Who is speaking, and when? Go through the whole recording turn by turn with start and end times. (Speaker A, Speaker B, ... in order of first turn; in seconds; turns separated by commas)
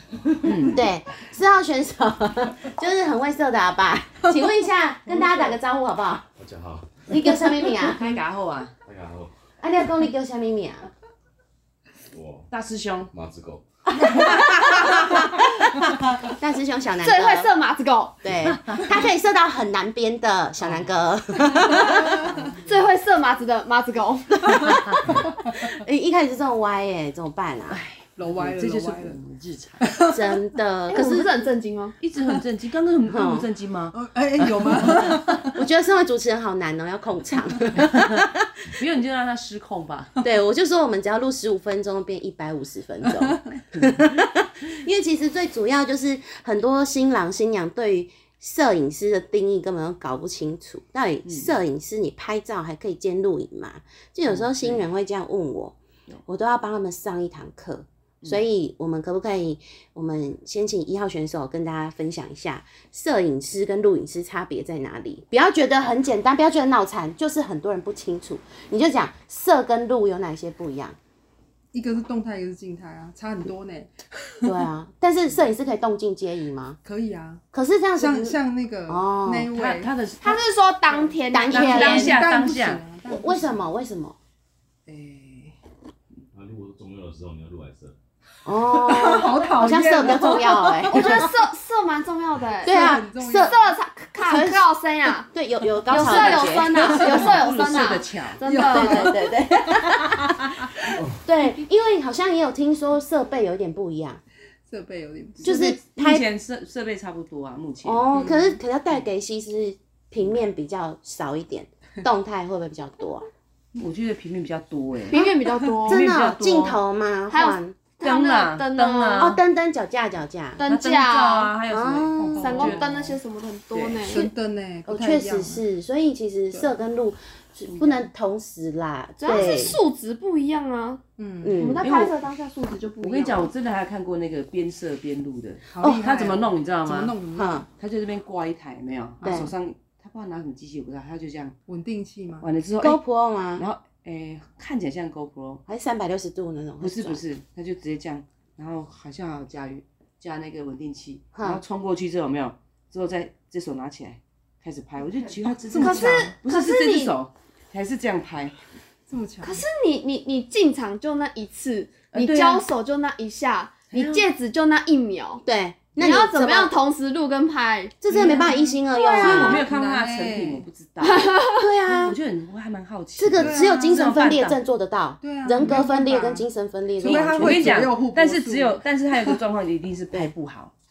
Speaker A: 0.4-0.8, Speaker B: 0.6-6.3, Speaker C: 6.4-7.0, Speaker B: 7.1-8.0, Speaker A: 7.5-8.7, Speaker C: 8.8-9.3, Speaker B: 9.6-10.9, Speaker C: 12.1-12.5, Speaker A: 12.5-13.1, Speaker C: 13.1-13.6, Speaker B: 13.9-17.5, Speaker D: 17.0-18.2, Speaker B: 18.2-22.2, Speaker A: 20.6-20.9, Speaker E: 21.8-22.5, Speaker D: 22.6-25.0, Speaker B: 24.4-27.8, Speaker A: 27.7-29.8, Speaker E: 28.2-29.2, Speaker E: 29.8-30.3, Speaker B: 30.1-31.3, Speaker D: 30.9-31.9, Speaker A: 32.0-35.2, Speaker B: 33.1-33.5, Speaker E: 33.9-35.5, Speaker B: 35.5-38.5, Speaker A: 38.8-40.2, Speaker B: 40.2-71.0, Speaker A: 51.2-51.5, Speaker A: 54.3-54.9, Speaker E: 71.7-74.5, Speaker B: 74.4-76.8, Speaker E: 76.8-77.4, Speaker B: 77.5-78.4, Speaker E: 78.0-79.9, Speaker B: 78.9-79.5, Speaker A: 79.5-80.4, Speaker D: 80.2-82.1, Speaker A: 81.0-82.8, Speaker B: 81.3-82.1, Speaker E: 81.6-83.6, Speaker B: 83.1-84.2, Speaker E: 84.9-85.5, Speaker C: 86.3-87.9, Speaker B: 88.4-91.3, Speaker E: 88.7-91.3, Speaker D: 90.9-95.3, Speaker B: 92.6-93.6, Speaker E: 92.6-93.7, Speaker B: 94.2-94.7, Speaker B: 95.3-97.3, Speaker A: 95.9-98.4, Speaker D: 95.9-99.1, Speaker B: 98.4-104.2, Speaker E: 98.4-100.7, Speaker C: 100.9-101.2, Speaker E: 104.7-105.6, Speaker B: 105.4-106.2, Speaker A: 105.4-108.1, Speaker B: 107.8-113.3, Speaker E: 108.1-108.6, Speaker A: 113.7-115.2, Speaker D: 115.1-116.0, Speaker E: 115.2-115.5, Speaker A: 115.8-116.8, Speaker B: 115.9-117.8, Speaker D: 117.3-119.4, Speaker A: 118.0-119.4, Speaker B: 119.2-120.6, Speaker D: 120.6-121.5, Speaker A: 120.7-123.2, Speaker B: 121.7-122.7, Speaker D: 122.4-124.2, Speaker E: 122.4-122.8, Speaker A: 123.7-124.0, Speaker E: 124.0-125.6, Speaker B: 124.9-129.8, Speaker A: 127.7-128.1, Speaker D: 129.2-131.0, Speaker E: 131.2-131.7, Speaker B: 131.4-131.9, Speaker D: 131.6-133.5, Speaker A: 131.8-132.2, Speaker A: 133.0-137.2, Speaker E: 135.7-137.5, Speaker B: 135.8-136.1, Speaker B: 137.3-137.7, Speaker A: 137.8-141.6, Speaker B: 139.2-139.5, Speaker E: 141.7-142.5, Speaker A: 142.4-143.0, Speaker B: 142.8-143.6, Speaker A: 143.6-145.6, Speaker B: 145.7-147.2, Speaker A: 146.8-158.6, Speaker B: 151.3-151.6, Speaker E: 155.4-156.3, Speaker D: 155.8-157.1, Speaker E: 159.1-159.6, Speaker D: 159.4-165.4, Speaker A: 162.1-162.6, Speaker A: 163.9-164.3, Speaker B: 165.4-166.7, Speaker D: 165.9-168.0, Speaker B: 168.0-169.6, Speaker E: 168.1-170.6, Speaker A: 169.1-174.6, Speaker D: 171.0-171.7, Speaker B: 171.6-172.2, Speaker B: 173.2-177.8, Speaker E: 173.4-174.1, Speaker E: 175.2-176.4, Speaker E: 177.0-179.4, Speaker A: 177.0-180.7